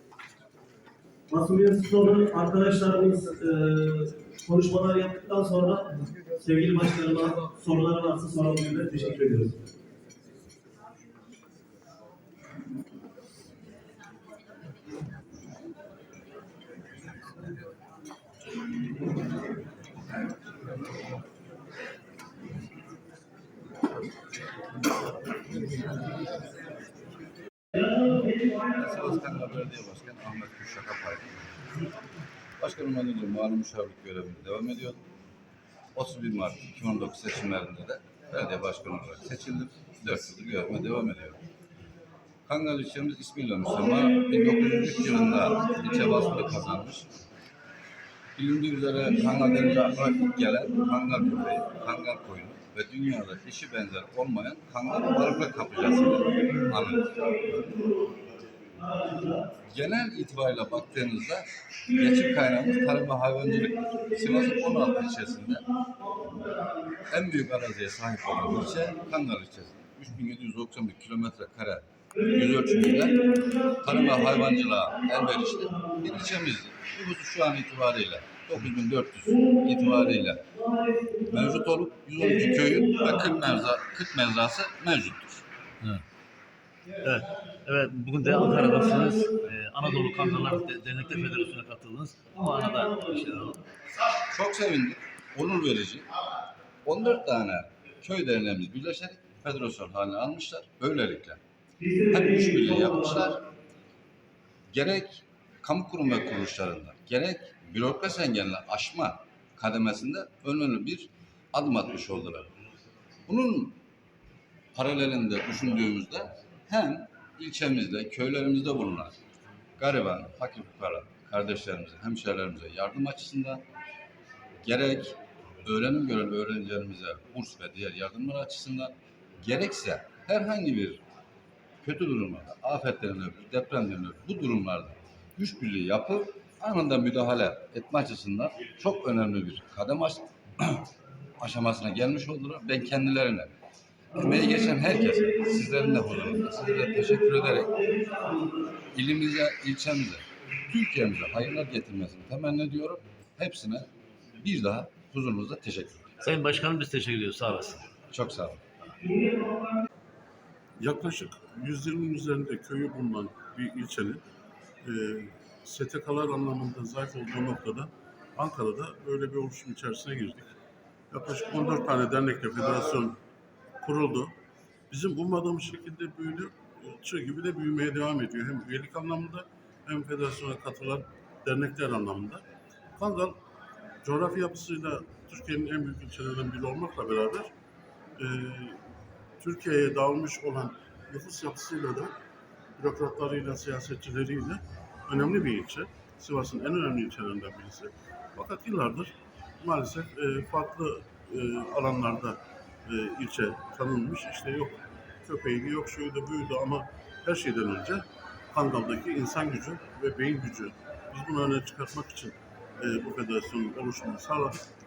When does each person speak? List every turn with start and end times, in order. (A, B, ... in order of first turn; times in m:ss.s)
0:01.3-0:09.6 A
0:28.0-0:31.4 B
0:32.6-0:35.0 B
0:35.9-0:41.4 B
0:42.5-0:47.1 B
0:48.4-0:57.4 B
0:57.4-0:58.1 A
0:58.9-0:59.3 A
0:59.7-1:05.6 B
1:07.1-1:25.5 B
1:27.0-1:33.5 C
1:34.3-1:36.1 B
1:36.8-1:41.4 B
1:41.8-1:42.3 C
1:42.1-1:43.4 B
1:44.7-1:52.5 B
1:53.3-1:53.8 B
1:54.8-1:59.2 B
1:59.8-2:03.6 B
2:04.6-2:11.0 B
2:11.8-2:20.9 B
2:21.4-2:23.6 B
2:24.2-2:36.2 B
2:36.2-2:37.8 C
2:38.1-2:38.6 B
2:40.8-2:44.2 D
2:44.8-2:50.5 D
2:51.1-2:53.2 D
2:53.8-2:54.3 D
2:54.9-3:02.4 D
3:03.0-3:03.4 D
3:04.0-3:07.5 D
3:08.2-3:08.8 D
3:09.4-3:12.1 D
3:12.8-3:28.0 D
3:28.5-3:34.6 D